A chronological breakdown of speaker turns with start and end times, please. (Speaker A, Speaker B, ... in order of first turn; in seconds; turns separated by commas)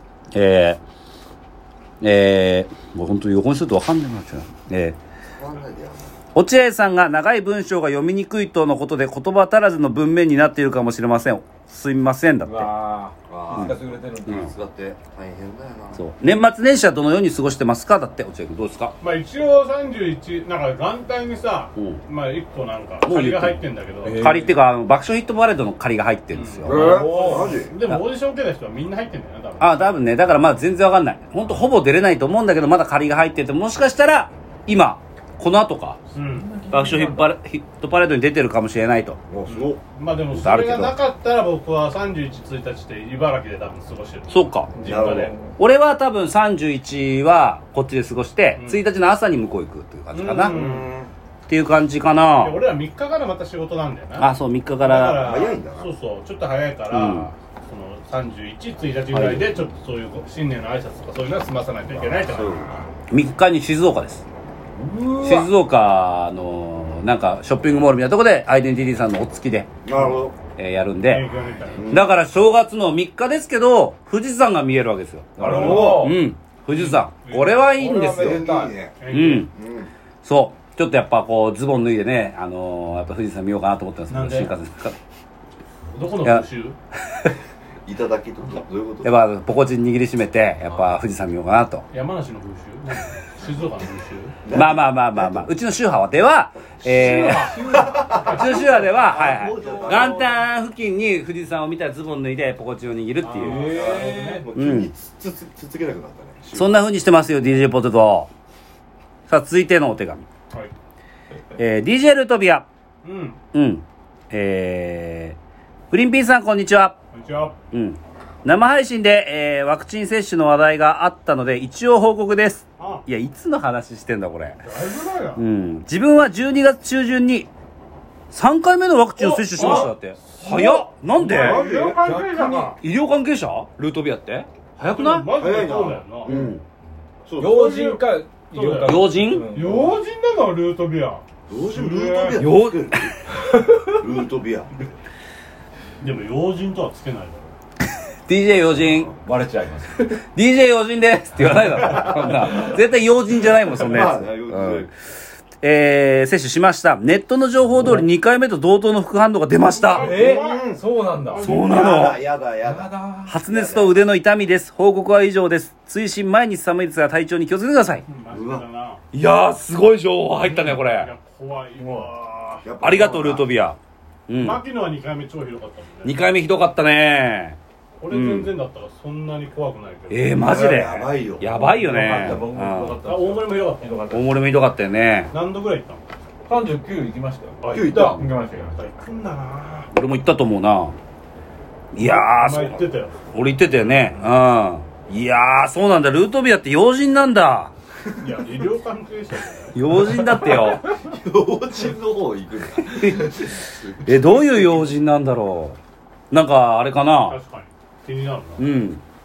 Speaker A: 0.3-0.8, Speaker A: 2.0-5.0, Speaker B: 5.4-6.2, Speaker A: 6.3-12.7, Speaker C: 12.4-14.5, Speaker B: 13.3-16.0, Speaker A: 14.3-14.5, Speaker A: 15.9-18.9, Speaker D: 19.0-24.3, Speaker A: 23.0-26.9, Speaker C: 24.0-24.6, Speaker D: 26.3-30.0, Speaker B: 26.6-27.8, Speaker C: 26.7-27.6, Speaker A: 29.6-36.0, Speaker D: 36.1-36.5, Speaker C: 36.3-37.3, Speaker A: 36.7-39.2, Speaker B: 39.3-39.8, Speaker D: 39.5-45.4, Speaker A: 40.3-41.0, Speaker A: 44.3-44.7, Speaker B: 44.8-45.4, Speaker C: 44.9-45.5, Speaker A: 45.6-50.6, Speaker D: 48.6-48.8, Speaker D: 50.1-50.9, Speaker B: 50.5-51.1, Speaker A: 51.5-52.6, Speaker D: 52.4-62.9, Speaker A: 54.2-55.3, Speaker B: 55.1-55.9, Speaker A: 56.9-57.3, Speaker A: 59.1-59.6, Speaker B: 62.2-62.8, Speaker A: 63.1-64.2, Speaker B: 64.8-65.5, Speaker A: 65.2-69.7, Speaker B: 69.8-70.4, Speaker A: 70.5-71.3, Speaker D: 71.0-71.9, Speaker B: 71.7-72.1, Speaker A: 71.8-79.5, Speaker C: 75.4-76.2, Speaker B: 75.4-76.1, Speaker D: 75.5-76.1, Speaker D: 76.7-77.7, Speaker C: 77.7-78.8, Speaker B: 78.0-79.0, Speaker D: 79.0-79.5, Speaker B: 79.5-79.9, Speaker A: 80.2-85.0, Speaker D: 84.1-84.5, Speaker D: 85.9-86.8, Speaker B: 87.8-89.1, Speaker A: 89.0-91.8, Speaker D: 91.9-94.4, Speaker B: 94.4-95.5, Speaker A: 94.5-97.6, Speaker D: 96.8-98.9, Speaker C: 96.9-100.2, Speaker B: 97.8-98.4, Speaker A: 98.2-103.8, Speaker B: 98.9-100.4, Speaker C: 103.2-104.5, Speaker D: 103.4-104.5, Speaker B: 103.7-106.8, Speaker A: 104.5-104.9, Speaker A: 106.5-108.3, Speaker A: 109.3-110.2, Speaker A: 111.6-112.7, Speaker D: 113.0-113.4, Speaker A: 113.5-115.4, Speaker A: 115.9-117.0, Speaker D: 117.1-117.5, Speaker A: 117.7-124.6, Speaker D: 122.8-123.0, Speaker D: 124.6-125.4, Speaker A: 125.4-127.5, Speaker A: 128.3-131.6, Speaker D: 129.2-132.8, Speaker C: 129.6-129.9, Speaker B: 131.3-132.0, Speaker C: 131.4-132.8, Speaker A: 132.8-135.3, Speaker D: 134.8-136.4, Speaker B: 135.3-136.6, Speaker A: 136.2-136.6, Speaker B: 137.3-137.6, Speaker C: 137.4-140.0, Speaker D: 137.4-142.4, Speaker A: 138.8-139.5, Speaker B: 141.5-143.1, Speaker A: 142.3-143.1, Speaker B: 143.9-144.9, Speaker D: 146.0-147.6, Speaker A: 148.3-149.2, Speaker C: 149.2-150.2, Speaker A: 150.1-154.9, Speaker C: 151.9-152.7, Speaker B: 153.8-154.9, Speaker A: 155.6-160.1, Speaker D: 159.8-162.1, Speaker C: 159.9-161.5, Speaker B: 160.1-160.8, Speaker A: 161.4-162.2, Speaker B: 161.6-162.9, Speaker C: 162.6-163.3, Speaker A: 163.3-168.1, Speaker B: 163.5-164.0, Speaker D: 168.1-169.0, Speaker B: 168.3-168.6, Speaker A: 169.1-171.1, Speaker D: 170.4-172.7, Speaker B: 172.6-173.5, Speaker A: 172.8-173.8, Speaker A: 174.3-174.6, Speaker D: 174.4-176.2, Speaker A: 176.0-177.6, Speaker D: 178.0-180.5, Speaker A: 178.1-178.5, Speaker A: 180.1-183.0, Speaker B: 180.4-181.6, Speaker C: 181.5-184.0, Speaker B: 182.1-182.5, Speaker D: 183.0-184.3, Speaker A: 184.1-185.3, Speaker D: 185.3-186.0, Speaker C: 186.5-188.8, Speaker D: 187.6-189.9, Speaker B: 187.7-188.2, Speaker A: 189.9-191.0, Speaker A: 191.9-197.7, Speaker D: 192.0-193.2, Speaker D: 193.7-194.3, Speaker D: 198.2-199.8, Speaker A: 199.8-200.8, Speaker B: 200.9-204.9, Speaker A: 202.9-203.5, Speaker A: 204.0-205.8, Speaker A: 206.3-207.4, Speaker D: 207.2-208.7, Speaker A: 208.6-209.0